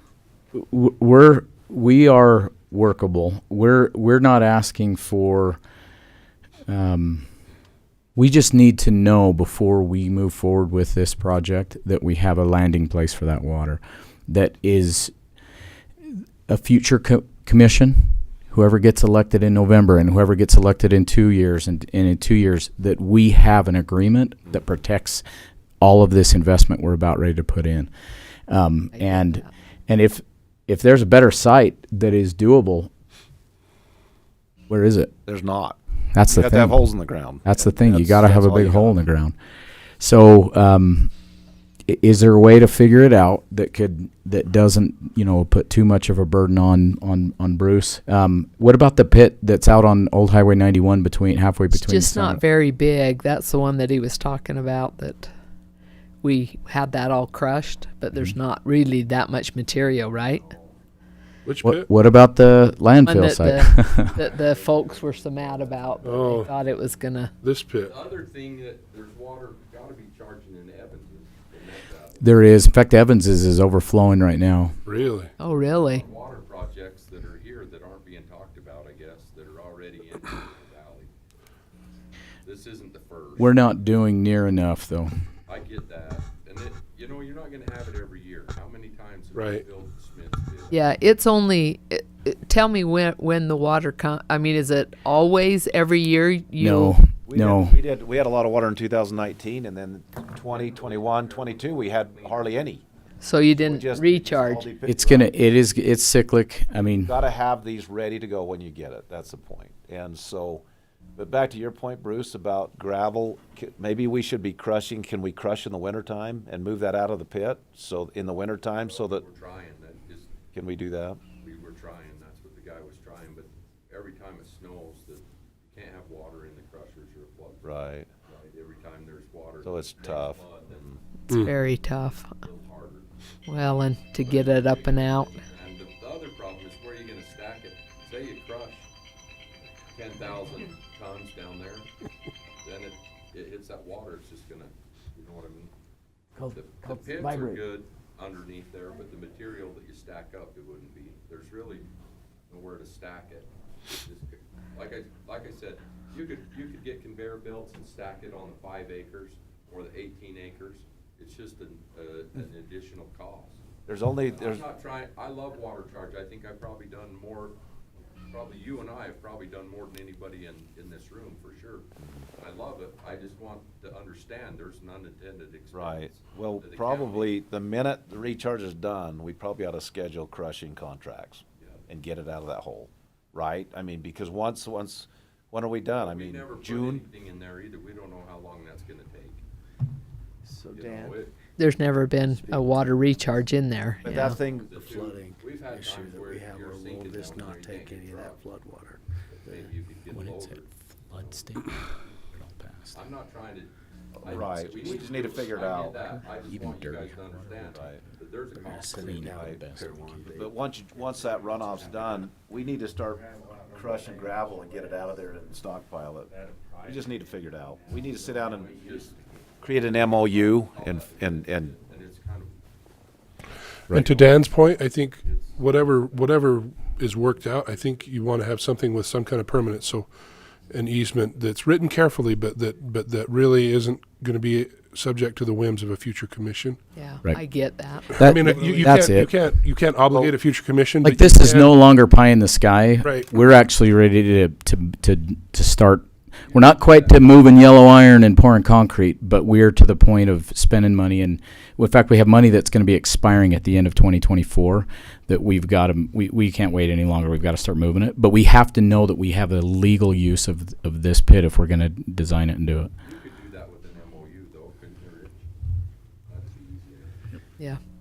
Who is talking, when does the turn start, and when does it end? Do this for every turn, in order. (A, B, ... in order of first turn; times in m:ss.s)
0:00.5-0:05.6 A
0:06.7-0:07.3 A
0:08.2-0:15.1 A
0:16.0-0:25.2 A
0:25.8-0:27.9 A
0:28.5-0:32.9 A
0:28.9-0:29.5 B
0:34.7-0:35.1 A
0:35.2-0:39.0 C
0:36.1-0:36.9 A
0:37.4-0:39.3 A
0:40.0-0:41.1 A
0:41.9-0:52.4 A
0:51.7-0:55.3 B
0:56.2-1:00.4 B
1:00.1-1:00.8 D
1:01.4-1:01.9 E
1:01.6-1:04.1 A
1:03.0-1:07.3 B
1:03.9-1:06.6 D
1:06.0-1:06.5 E
1:07.4-1:08.0 E
1:07.8-1:12.6 D
1:12.2-1:14.8 A
1:14.8-1:15.3 E
1:14.9-1:21.1 D
1:15.4-1:16.0 B
1:22.4-1:23.6 D
1:23.4-1:25.1 A
1:25.5-1:30.9 D
1:29.3-1:29.6 E
1:30.7-1:37.0 B
1:36.6-1:37.8 A
1:37.3-1:42.8 C
1:40.4-1:42.7 D
1:43.2-1:44.7 B
1:43.4-1:45.3 C
1:44.8-1:47.1 A
1:47.0-1:50.6 C
1:51.2-1:59.2 C
1:58.8-2:00.3 D
2:00.5-2:01.2 C
2:01.4-2:11.0 D
2:07.6-2:08.1 C
2:09.6-2:10.9 C
2:11.3-2:11.5 E
2:11.3-2:12.3 B
2:11.8-2:13.1 D
2:13.4-2:15.4 B
2:14.2-2:18.9 D
2:19.9-2:21.9 D
2:22.6-2:25.7 D
2:26.4-2:27.5 A
2:26.4-2:31.8 D
2:27.1-2:27.6 F
2:32.5-2:43.6 D
2:43.9-2:44.6 C
2:44.3-2:47.5 D
2:48.3-2:57.4 D
2:52.0-2:52.3 C
2:55.7-3:07.0 C
3:01.6-3:01.8 D
3:05.9-3:09.4 D
3:10.6-3:11.2 F
3:10.7-3:11.3 D
3:11.6-3:14.4 B
3:12.3-3:12.8 F
3:14.0-3:14.9 C
3:14.1-3:18.6 D
3:14.6-3:19.7 F
3:19.3-3:21.6 D
3:20.1-3:20.5 A
3:21.1-3:21.8 A
3:22.3-3:23.0 A
3:22.9-3:23.7 D
3:24.2-3:26.0 C
3:24.2-3:29.5 D
3:26.0-3:27.2 A
3:27.7-3:28.0 C
3:28.5-3:35.7 F
3:28.6-3:30.2 A
3:29.2-3:29.6 C
3:30.2-3:36.3 C
3:36.3-3:39.1 F
3:36.8-3:39.1 C
3:38.4-3:39.4 D
3:39.6-3:41.7 C
3:39.9-3:42.6 D
3:43.9-3:44.5 D
3:43.9-3:50.1 E
3:45.2-3:46.4 D
3:50.7-3:56.8 E
3:56.9-3:58.9 B
3:58.1-3:59.3 A
3:58.2-4:01.7 E
4:01.0-4:22.9 A
4:03.0-4:03.3 E
4:06.5-4:07.4 D
4:23.0-4:25.4 D
4:26.3-4:27.2 D